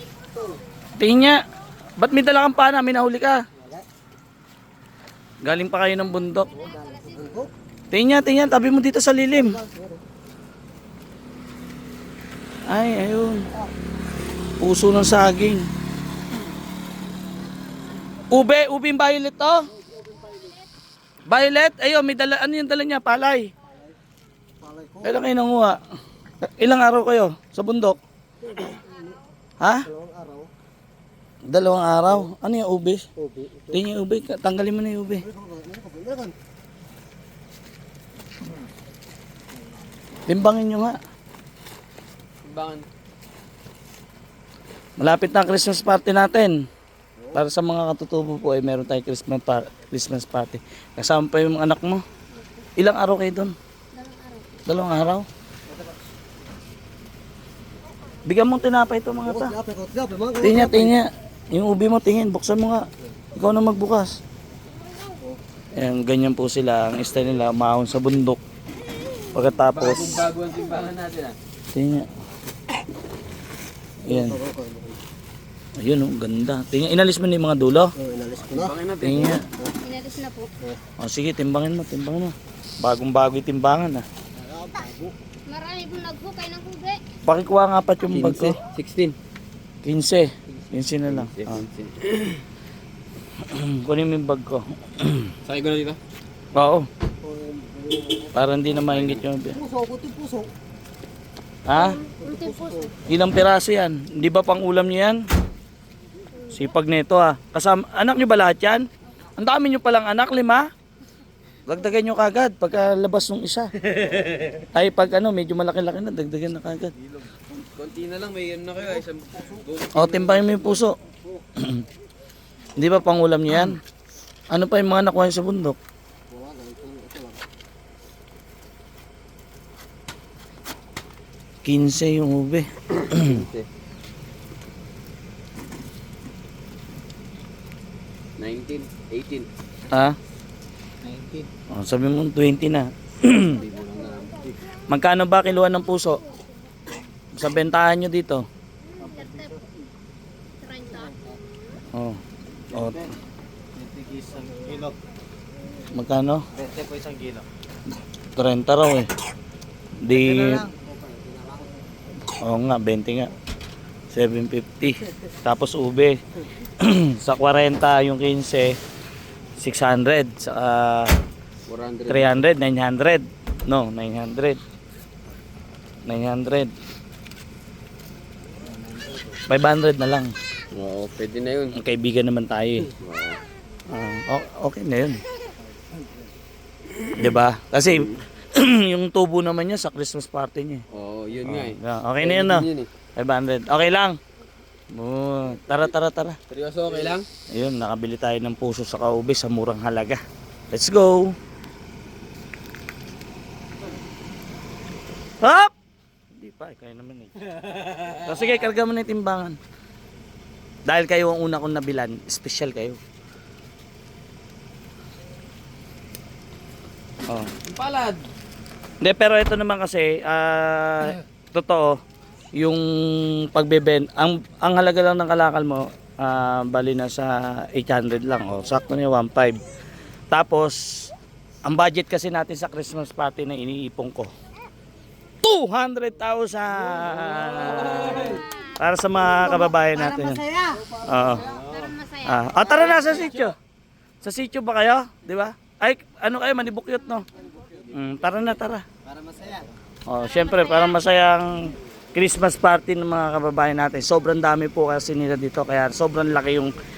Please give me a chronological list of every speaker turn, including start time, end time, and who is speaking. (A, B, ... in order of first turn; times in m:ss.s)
0:01.0-0:01.4 A
0:02.0-0:03.4 A
0:05.4-0:06.6 A
0:06.2-0:07.3 B
0:06.6-0:07.5 C
0:07.9-0:09.6 A
0:09.6-0:09.9 C
0:12.6-0:13.5 A
0:14.6-0:15.6 A
0:18.3-0:19.7 A
0:21.3-0:23.5 A
0:24.6-0:25.0 C
0:25.0-0:25.8 A
0:26.4-0:28.0 A
0:28.5-0:29.2 C
0:29.6-0:29.9 A
0:29.9-0:30.5 C
0:31.5-0:33.0 A
0:33.2-0:33.7 C
0:33.7-0:35.2 A
0:35.3-0:36.3 C
0:40.3-0:41.0 A
0:42.4-0:42.8 D
0:45.0-0:46.6 A
0:47.3-0:52.0 A
0:52.8-0:53.5 A
0:53.9-0:54.6 B
0:54.6-0:55.2 A
0:58.2-0:59.5 A
0:59.4-1:00.9 C
1:00.4-1:04.2 A
1:05.7-1:08.4 A
1:09.3-1:10.3 A
1:09.7-1:11.4 D
1:11.7-1:12.1 A
1:14.0-1:14.4 A
1:14.3-1:14.9 C
1:15.8-1:17.9 A
1:18.0-1:18.6 C
1:18.4-1:19.4 D
1:19.0-1:19.4 A
1:19.8-1:20.6 B
1:21.0-1:24.0 A
1:24.4-1:25.1 C
1:25.4-1:27.0 B
1:27.2-1:28.6 A
1:28.1-1:29.2 D
1:29.8-1:31.6 A
1:31.1-1:32.4 D
1:33.4-1:35.3 A
1:35.4-1:36.0 D
1:36.5-1:36.9 A
1:37.2-1:38.4 C
1:38.3-1:39.6 A
1:38.9-1:39.2 D
1:39.6-1:40.5 C
1:41.6-1:41.9 A
1:41.8-1:42.9 B
1:42.2-1:42.9 C
1:43.0-1:45.2 A
1:46.5-1:48.8 A
1:49.4-1:50.7 A
1:51.6-1:53.7 A
1:54.0-1:54.5 D
1:54.7-1:56.9 A
1:57.5-2:00.8 D
1:59.9-2:01.0 A
2:01.6-2:01.8 A
2:02.8-2:03.8 A
2:04.5-2:05.8 A
2:06.3-2:07.4 C
2:11.6-2:13.2 A
2:13.0-2:13.7 D
2:18.4-2:19.5 D
2:19.9-2:20.2 A
2:21.1-2:21.4 C
2:21.7-2:23.6 A
2:23.4-2:24.6 D
2:24.9-2:26.2 A
2:27.3-2:28.4 A
2:29.0-2:29.6 B
2:29.2-2:29.5 C
2:30.6-2:31.4 B
2:31.9-2:33.1 A
2:33.8-2:34.9 C
2:35.9-2:36.4 A
2:36.7-2:37.4 C
2:38.4-2:39.1 A
2:40.0-2:40.7 A
2:42.4-2:43.3 A
2:44.1-2:48.8 A
2:49.6-2:51.2 A
2:51.7-2:52.5 D
2:52.1-2:54.6 A
2:56.0-2:56.7 A
2:59.5-3:00.3 A
3:00.7-3:01.8 D
3:01.7-3:02.9 A
3:03.0-3:03.4 D
3:03.9-3:05.2 A
3:07.1-3:10.8 A
3:10.9-3:12.9 D
3:11.4-3:14.2 A
3:14.9-3:16.4 A
3:15.6-3:15.9 D
3:16.5-3:17.2 D
3:17.5-3:20.2 A
3:20.7-3:21.3 A
3:25.4-3:25.7 A
3:26.3-3:27.4 A
3:27.8-3:28.2 D
3:28.1-3:29.6 A
3:30.8-3:33.0 A
3:37.6-3:38.2 D
3:39.0-3:42.0 A
3:42.6-3:49.6 A
3:50.3-3:50.8 A
3:51.6-3:54.3 A
3:55.4-4:00.4 A
3:57.8-3:58.4 D
4:00.2-4:01.0 C
4:01.0-4:01.6 A
4:01.4-4:01.9 D
4:01.6-4:02.9 B
4:02.2-4:03.5 A
4:02.9-4:03.4 D
4:04.2-4:07.2 A
4:07.9-4:08.8 A
4:09.1-4:09.6 C
4:10.1-4:16.8 A
4:10.2-4:11.0 B